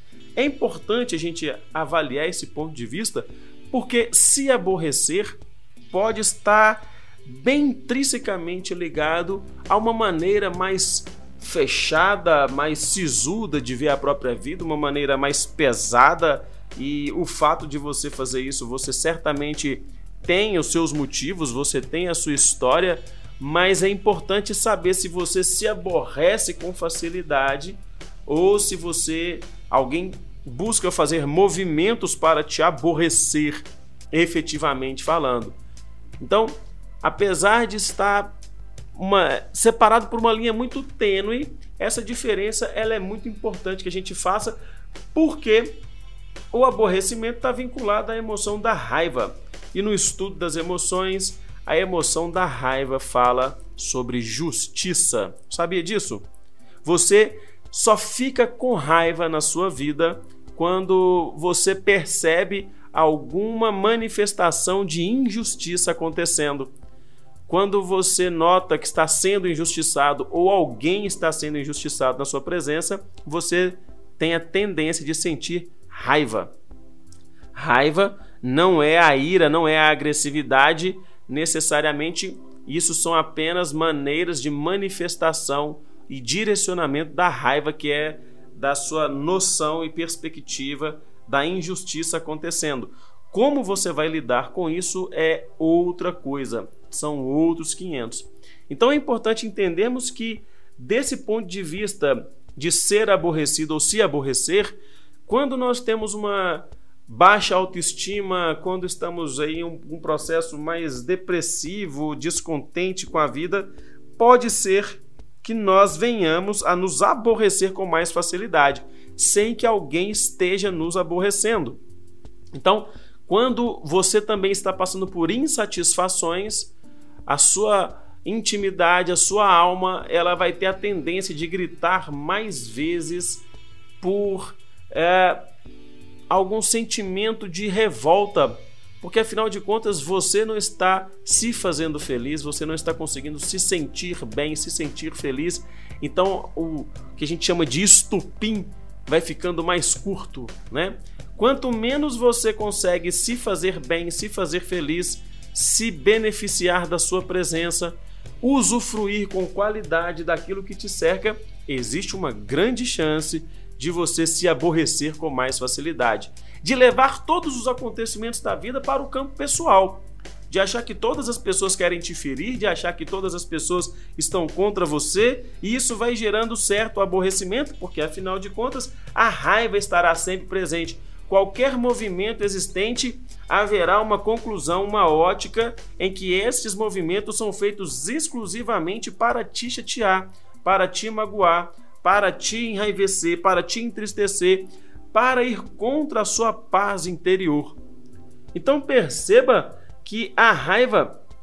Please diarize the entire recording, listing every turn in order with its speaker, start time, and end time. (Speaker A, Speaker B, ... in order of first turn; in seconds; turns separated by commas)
Speaker A: 0.3-35.6, Speaker A: 36.2-38.4, Speaker A: 38.9-44.6, Speaker A: 45.1-45.8, Speaker A: 46.5-56.2, Speaker A: 56.8-66.7, Speaker A: 67.5-76.5, Speaker A: 77.5-121.8, Speaker A: 122.5-126.7, Speaker A: 127.3-133.4, Speaker A: 134.0-135.5, Speaker A: 136.3-197.8, Speaker A: 198.5-201.2